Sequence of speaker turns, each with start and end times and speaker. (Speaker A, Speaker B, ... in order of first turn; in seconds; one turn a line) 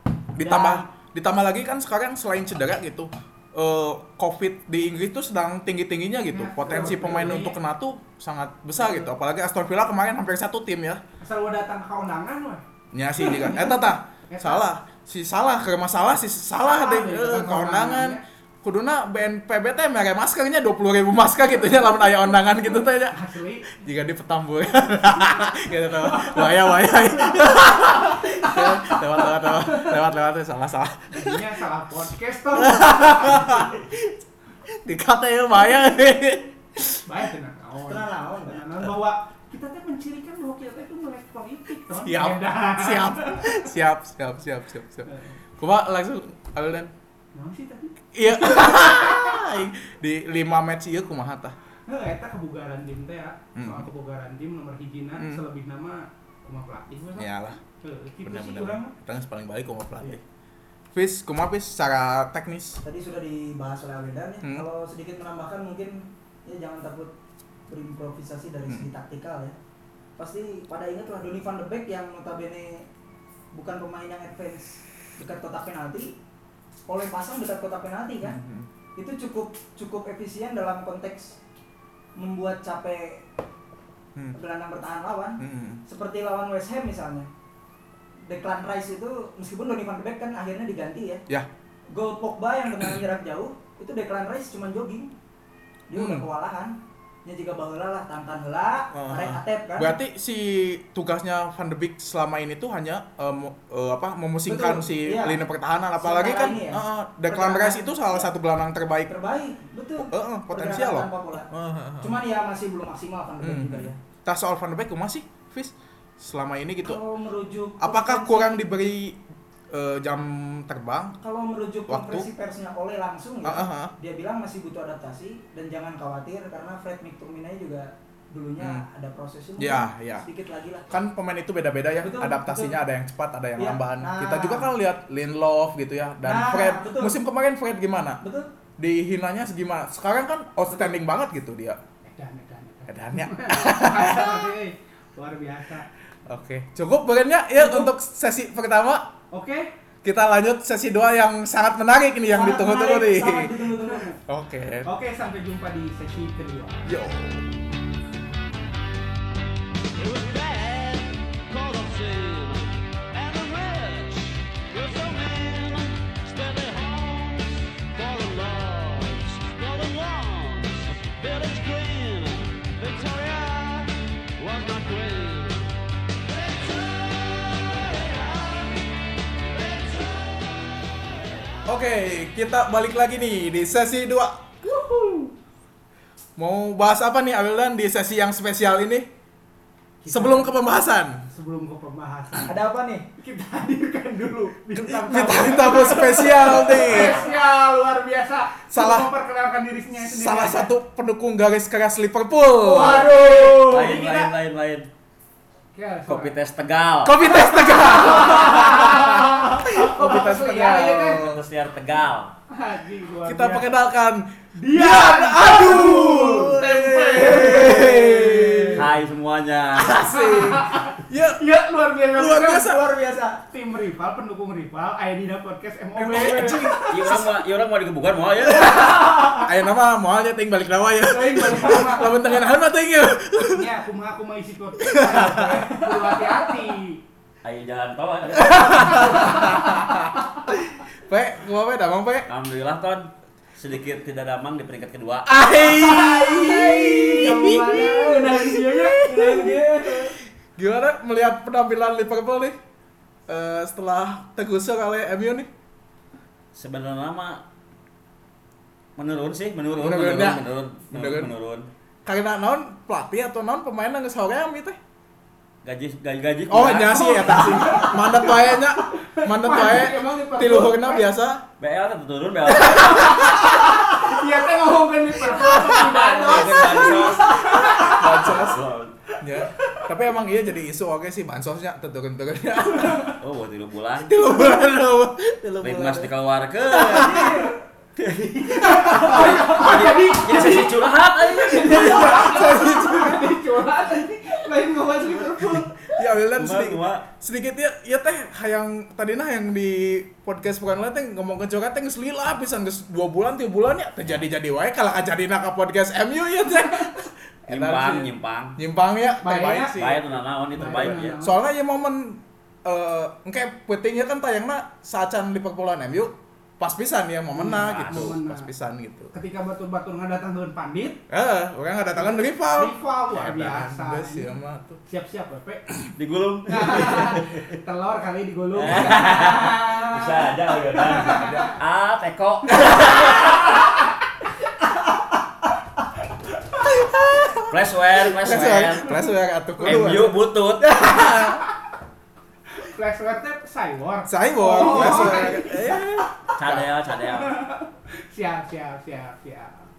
Speaker A: 0.3-0.9
Speaker B: 0.3-11.0
Speaker A: 6.3-7.6
Speaker A: 8.8-9.1
Speaker A: 11.2-12.6
Speaker B: 12.9-31.4
Speaker A: 13.2-14.7
Speaker A: 16.6-18.2
Speaker A: 23.0-23.8
Speaker A: 26.0-29.9
Speaker A: 31.1-33.8
Speaker B: 32.5-34.1
Speaker B: 34.7-37.1
Speaker A: 37.0-43.6
Speaker C: 37.9-38.6
Speaker B: 41.9-46.9
Speaker A: 45.1-45.4
Speaker A: 47.4-49.4
Speaker B: 48.1-51.5
Speaker A: 51.9-58.9
Speaker B: 53.6-53.9
Speaker B: 55.2-55.4
Speaker B: 57.2-57.6
Speaker B: 58.2-60.2
Speaker B: 60.9-62.8
Speaker C: 62.8-67.1
Speaker C: 67.7-69.5
Speaker C: 70.2-72.9
Speaker C: 73.5-76.1
Speaker C: 76.9-78.4
Speaker B: 78.2-78.7
Speaker C: 79.0-81.4
Speaker C: 82.2-83.2
Speaker C: 84.3-87.3
Speaker B: 85.4-85.8
Speaker C: 88.3-91.2
Speaker C: 91.9-95.1
Speaker C: 95.9-100.0
Speaker B: 96.0-96.3
Speaker B: 98.9-109.1
Speaker C: 104.5-105.4
Speaker C: 106.0-108.3
Speaker C: 109.1-111.5
Speaker B: 110.0-112.2
Speaker C: 112.0-114.0
Speaker B: 113.4-117.0
Speaker C: 116.8-118.8
Speaker B: 117.8-121.2
Speaker C: 121.2-130.9
Speaker B: 121.9-122.3
Speaker B: 123.4-123.9
Speaker B: 128.6-128.8
Speaker B: 129.6-130.3
Speaker B: 130.9-138.2
Speaker C: 132.0-132.8
Speaker C: 133.6-134.7
Speaker C: 136.2-137.2
Speaker C: 138.2-138.5
Speaker B: 138.8-141.8
Speaker A: 142.1-145.9
Speaker B: 142.9-144.5
Speaker B: 146.3-149.1
Speaker A: 149.3-149.7
Speaker B: 150.0-153.6
Speaker C: 152.3-154.2
Speaker B: 154.3-154.9
Speaker A: 154.8-156.9
Speaker B: 156.9-157.6
Speaker D: 160.0-162.6
Speaker D: 163.1-165.6
Speaker D: 166.2-167.4
Speaker D: 167.9-173.8
Speaker D: 174.4-175.6
Speaker D: 176.3-177.3
Speaker D: 178.2-178.5
Speaker D: 179.6-179.9
Speaker B: 181.7-184.6
Speaker A: 184.8-185.3
Speaker B: 186.4-189.1
Speaker A: 190.0-190.5
Speaker B: 190.1-191.3
Speaker A: 191.3-192.6
Speaker C: 192.5-193.1
Speaker A: 193.2-200.7
Speaker B: 194.8-197.3
Speaker B: 198.7-199.1
Speaker B: 200.0-203.2
Speaker C: 202.6-204.0
Speaker A: 202.8-204.3
Speaker E: 203.6-204.9
Speaker A: 205.8-206.3
Speaker E: 206.1-207.2
Speaker B: 207.0-211.4
Speaker A: 207.6-211.3
Speaker E: 211.1-212.3
Speaker A: 212.5-213.7
Speaker B: 213.2-218.9
Speaker A: 214.6-218.8
Speaker C: 216.2-218.1
Speaker E: 218.7-220.0
Speaker B: 219.8-221.4
Speaker A: 220.1-222.8
Speaker B: 222.1-222.8
Speaker C: 222.5-223.4
Speaker A: 223.5-227.2
Speaker B: 226.0-227.3
Speaker E: 226.9-228.8
Speaker B: 229.4-233.7
Speaker A: 231.1-232.3
Speaker A: 233.4-237.0
Speaker B: 234.8-235.7
Speaker E: 237.4-239.3
Speaker B: 238.4-242.3
Speaker A: 238.8-239.8
Speaker E: 242.3-245.4
Speaker B: 245.2-249.6
Speaker C: 245.9-250.2
Speaker A: 246.0-249.0
Speaker B: 250.6-252.6
Speaker B: 253.3-255.5
Speaker E: 256.5-257.4
Speaker E: 259.0-261.7
Speaker B: 259.8-261.3
Speaker B: 262.1-264.8
Speaker E: 265.6-267.5
Speaker B: 266.5-271.4
Speaker A: 266.9-271.1
Speaker E: 271.6-273.2
Speaker B: 272.6-273.8
Speaker A: 272.6-278.3
Speaker E: 275.3-278.9
Speaker B: 276.8-278.6
Speaker B: 279.2-283.1
Speaker A: 279.4-279.9
Speaker A: 282.7-283.1
Speaker E: 283.2-284.1
Speaker B: 284.0-286.1
Speaker E: 285.6-287.4
Speaker B: 286.7-287.5
Speaker C: 286.9-287.4
Speaker A: 287.1-287.5
Speaker E: 288.0-292.3
Speaker A: 288.6-295.9
Speaker B: 288.7-289.5
Speaker B: 291.6-293.4
Speaker B: 295.9-319.1
Speaker E: 296.3-297.0
Speaker E: 307.5-308.6
Speaker A: 309.2-309.8
Speaker E: 309.7-311.1
Speaker A: 310.5-311.4
Speaker A: 317.3-318.5
Speaker E: 317.5-318.1
Speaker A: 319.1-321.0
Speaker B: 321.1-324.8
Speaker A: 322.0-324.3
Speaker A: 324.9-325.6
Speaker E: 325.9-327.5
Speaker A: 326.5-331.5
Speaker E: 328.5-333.6
Speaker B: 331.1-331.5
Speaker B: 336.7-337.5
Speaker E: 337.5-339.0
Speaker B: 338.1-341.4
Speaker E: 339.6-340.8
Speaker A: 341.0-341.5
Speaker A: 342.5-345.8
Speaker B: 344.1-346.7
Speaker E: 344.8-345.1
Speaker E: 346.4-347.3
Speaker A: 347.0-349.7